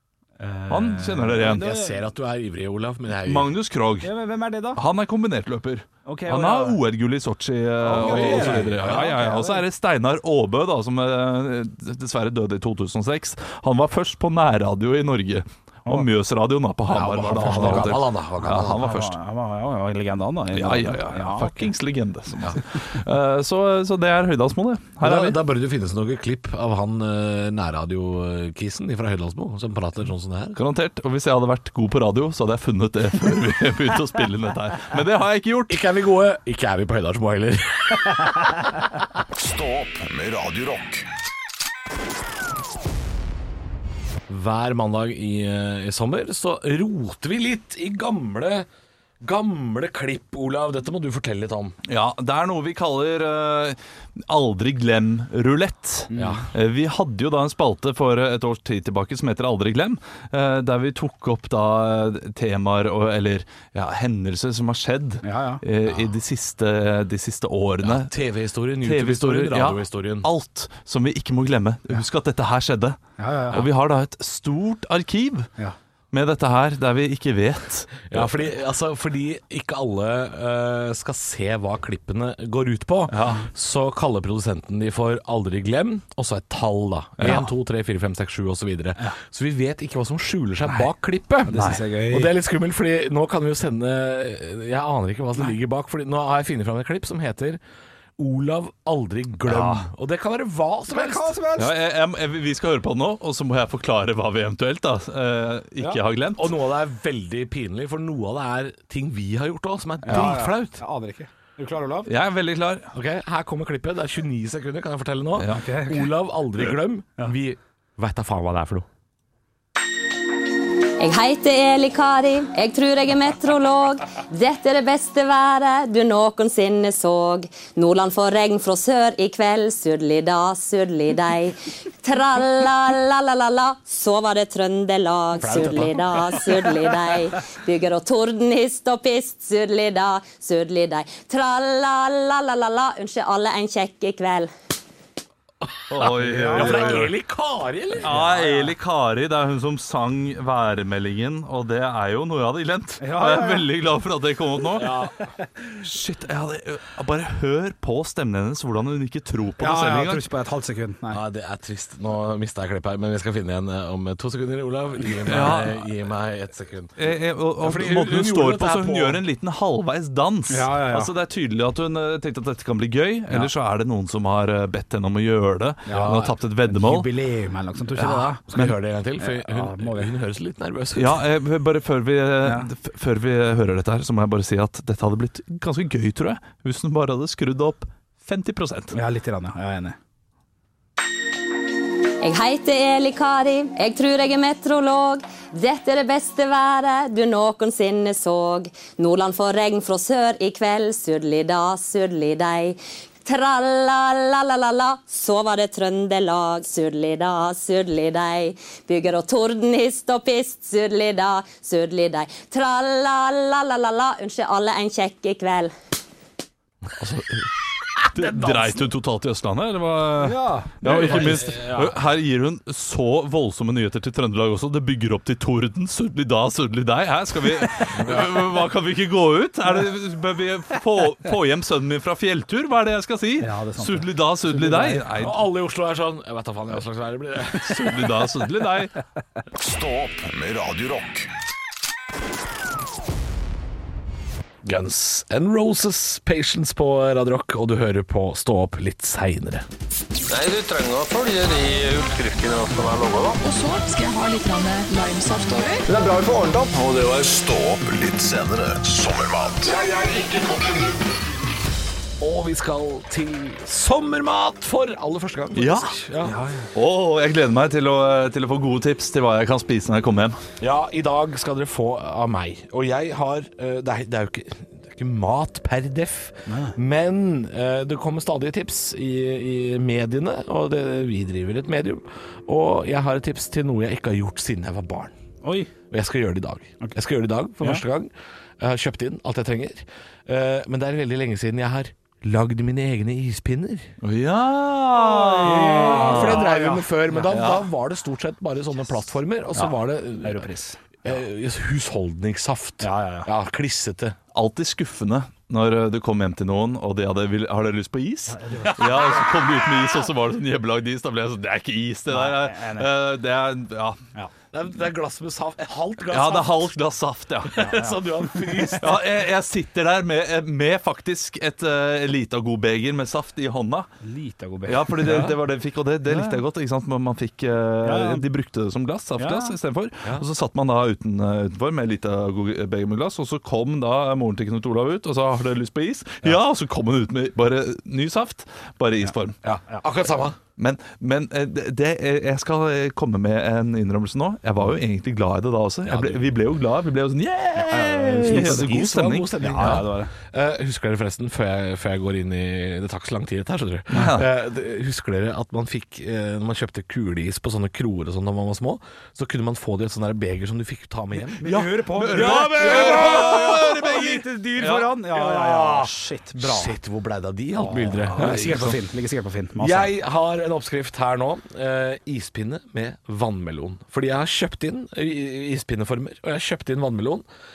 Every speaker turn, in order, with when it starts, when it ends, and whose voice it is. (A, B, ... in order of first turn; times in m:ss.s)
0:00.4-0:02.0 A
0:00.7-0:01.7 B
0:01.4-0:03.6 C
0:03.2-0:04.1 B
0:04.0-0:04.8 A
0:04.8-0:19.2 B
0:06.0-0:06.8 A
0:07.8-0:09.6 A
0:07.9-0:09.2 C
0:16.9-0:18.9 C
0:18.7-0:21.7 A
0:20.5-0:25.4 B
0:25.0-0:30.6 C
0:30.5-0:35.8 B
0:35.7-0:38.6 C
0:39.2-0:41.1 D
0:44.3-0:48.7 C
0:49.2-0:51.8 C
0:51.9-0:53.8 B
0:54.3-1:08.1 B
0:56.1-0:56.4 A
0:56.1-0:56.5 C
1:05.2-1:05.6 A
1:07.8-1:10.3 C
1:08.8-1:15.5 B
1:13.2-1:13.6 A
1:16.1-1:18.3 B
1:18.1-1:37.6 C
1:23.1-1:23.4 B
1:27.2-1:27.5 B
1:31.5-1:32.3 A
1:38.2-1:41.4 C
1:39.5-1:39.9 B
1:40.9-1:41.7 A
1:41.6-1:46.5 B
1:46.3-1:50.8 C
1:50.0-1:52.1 A
1:52.0-1:52.9 B
1:52.9-1:58.8 C
1:55.4-1:55.6 B
1:55.5-1:56.1 A
2:01.0-2:24.5 E
2:15.3-2:16.5 C
2:25.9-2:27.1 B
2:25.9-2:28.2 C
2:26.2-2:27.1 A
2:28.0-2:35.0 B
2:28.0-2:28.7 A
2:33.0-2:33.7 A
2:34.7-2:35.3 C
2:35.8-2:40.2 B
2:39.6-2:41.2 A
2:41.1-2:49.2 C
2:45.2-2:45.8 B
2:47.0-2:57.1 B
2:50.5-2:51.1 A
2:55.8-2:58.4 A
2:55.9-2:56.4 C
2:58.0-2:58.7 B
2:58.5-3:01.2 C
2:59.2-3:00.1 A
3:00.9-3:08.9 B
3:02.4-3:02.7 A
3:08.9-3:10.0 A
3:12.2-3:35.7 E
3:37.0-3:38.8 C
3:38.0-3:55.4 B
3:40.2-3:41.4 A
3:40.8-3:42.0 C
3:47.9-3:48.5 C
3:53.4-3:55.0 A
3:55.1-3:58.3 C
3:57.6-3:58.9 B
3:59.5-4:01.3 D
4:04.6-4:09.7 C
4:10.3-4:13.4 F
4:13.4-4:15.9 G
4:15.9-4:16.6 A
4:15.9-4:19.8 D
4:20.4-4:20.8 D
4:22.2-4:26.4 C
4:25.5-4:26.0 B
4:26.2-4:26.7 A
4:26.7-4:30.4 B
4:30.6-4:45.1 C
4:36.4-4:36.8 A
4:45.4-4:45.7 A
4:45.9-4:53.9 C
4:54.0-4:56.5 B
4:54.9-4:57.2 A
4:55.4-5:00.4 C
4:57.2-4:57.6 B
5:00.2-5:00.8 A
5:01.0-5:04.2 C
5:02.8-5:03.3 A
5:04.3-5:14.0 B
5:08.3-5:09.0 A
5:08.6-5:09.2 C
5:12.1-5:12.9 A
5:14.5-5:16.7 C
5:16.1-5:17.6 B
5:17.5-5:19.1 C
5:17.6-5:18.7 A
5:18.7-5:23.9 B
5:24.0-5:25.4 A
5:24.6-5:39.4 B
5:26.1-5:26.4 A
5:27.8-5:28.2 A
5:29.2-5:29.6 A
5:39.4-5:40.4 C
5:40.6-5:49.8 B
5:45.9-5:46.2 C
5:47.6-5:48.7 A
5:47.8-6:01.4 C
5:49.4-5:50.1 A
5:53.9-5:54.3 B
5:53.9-5:54.2 A
6:01.4-6:06.8 A
6:01.4-6:05.0 B
6:02.1-6:03.9 C
6:05.0-6:08.7 C
6:07.6-6:09.9 A
6:08.0-6:08.8 B
6:09.6-6:17.2 C